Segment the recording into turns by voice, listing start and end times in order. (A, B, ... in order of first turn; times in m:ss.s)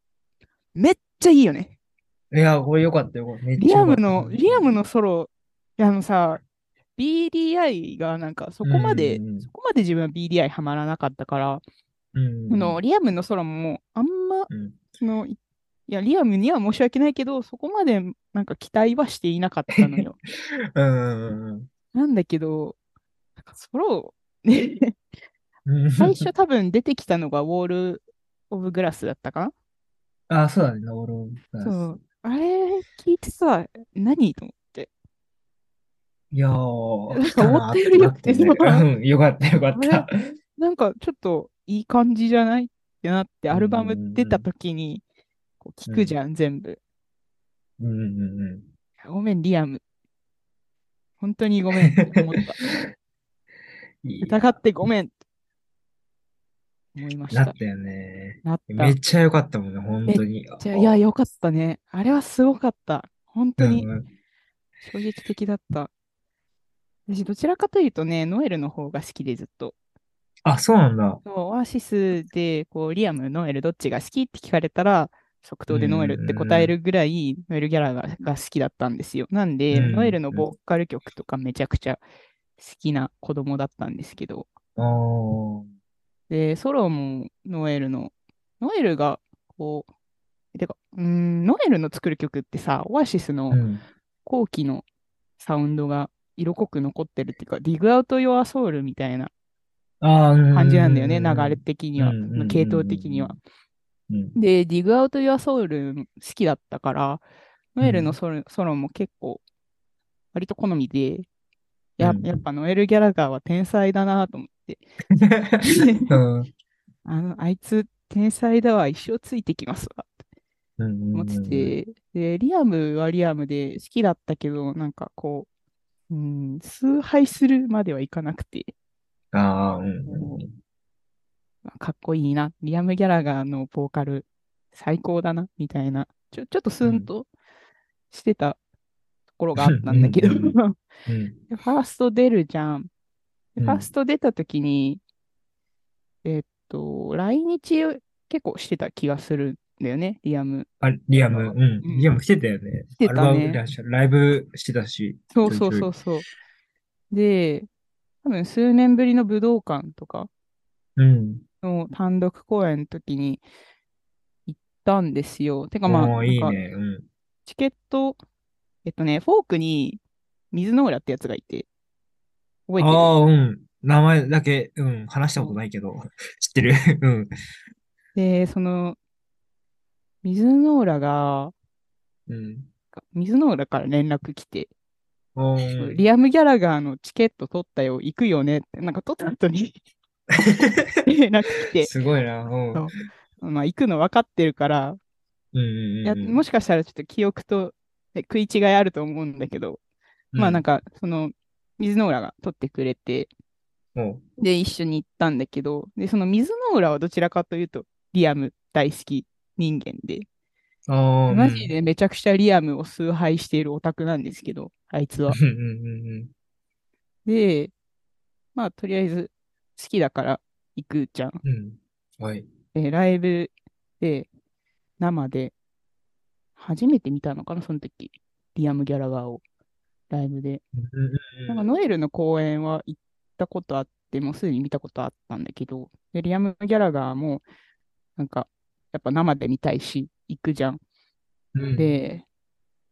0:00.8-0:01.8 A
0:02.3-0:04.7 B
0:03.6-0:06.4 A
0:07.0-0:11.6 A
0:08.6-0:09.5 B
0:12.1-0:12.8 B
0:12.5-0:20.2 A
0:14.5-0:14.8 B
0:20.8-0:21.7 B
0:21.9-0:22.8 A
0:23.5-0:25.0 A
0:25.6-0:26.2 B
0:26.0-0:29.5 A
0:30.3-0:31.9 B
0:31.6-0:34.9 A
0:36.3-0:40.1 B
0:37.1-0:38.8 A
0:39.7-0:45.0 A
0:43.5-0:44.5 B
0:45.6-0:46.8 A
0:45.9-0:46.2 B
0:47.8-0:48.7 B
0:49.0-0:49.8 A
0:51.2-0:52.6 A
0:54.0-0:54.5 B
0:54.2-0:55.1 A
0:56.9-0:57.5 A
0:57.3-1:00.9 B
0:58.4-0:59.0 A
1:00.1-1:03.9 A
1:03.6-1:04.1 B
1:04.8-1:05.9 A
1:07.1-1:09.8 A
1:10.4-1:11.2 B
1:11.2-1:22.0 A
1:15.7-1:16.8 B
1:19.7-1:20.5 B
1:22.6-1:24.5 A
1:24.8-1:25.7 B
1:26.3-1:29.9 A
1:30.5-1:33.6 A
1:33.5-1:33.8 B
1:34.2-1:34.8 A
1:35.4-1:39.3 A
1:40.0-1:43.4 B
1:40.5-1:43.4 A
1:44.1-1:44.4 B
1:44.3-1:47.2 A
1:47.8-1:49.4 A
1:47.8-1:48.2 B
1:50.3-1:51.2 A
1:52.0-1:54.8 A
1:52.0-1:52.3 B
1:55.2-1:56.5 B
1:55.6-1:56.1 A
1:57.0-2:00.1 A
2:00.8-2:01.8 B
2:01.1-2:05.5 A
2:06.1-2:08.7 A
2:09.3-2:10.5 B
2:10.1-2:10.4 A
2:11.6-2:17.3 A
2:16.8-2:17.1 B
2:18.1-2:18.6 A
2:19.4-2:20.8 A
2:19.6-2:20.5 B
2:21.1-2:21.4 B
2:21.5-2:22.9 A
2:23.6-2:25.0 A
2:23.6-2:23.9 B
2:26.2-2:32.1 A
2:30.8-2:35.9 B
2:33.0-2:33.6 A
2:35.3-2:36.2 A
2:37.1-2:37.7 A
2:38.2-2:40.3 A
2:41.0-2:41.4 B
2:41.6-2:43.4 A
2:44.5-2:46.6 A
2:45.8-2:47.1 B
2:47.4-2:48.2 A
2:48.8-2:51.7 A
2:52.7-2:53.1 A
2:52.8-2:57.3 B
2:58.1-2:59.0 A
3:00.2-3:01.5 A
3:02.3-3:02.7 B
3:02.9-3:04.7 A
3:05.4-3:06.0 B
3:05.7-3:09.8 A
3:10.4-3:10.7 B
3:11.1-3:11.9 A
3:11.8-3:12.9 B
3:12.7-3:15.0 A
3:15.5-3:16.4 B
3:16.0-3:19.8 A
3:20.3-3:20.6 B
3:20.4-3:23.3 A
3:23.9-3:24.2 B
3:24.4-3:30.2 A
3:30.9-3:31.7 B
3:31.3-3:35.4 A
3:35.3-3:36.3 B
3:37.2-3:37.7 A
3:38.5-3:41.4 A
3:41.4-3:42.5 B
3:42.7-3:44.3 A
3:45.0-3:45.5 A
3:46.6-3:49.4 A
3:50.1-3:50.6 A
3:50.8-3:51.6 B
3:51.5-3:57.4 A
3:58.2-4:00.8 A
4:01.5-4:01.9 B
4:01.8-4:02.2 A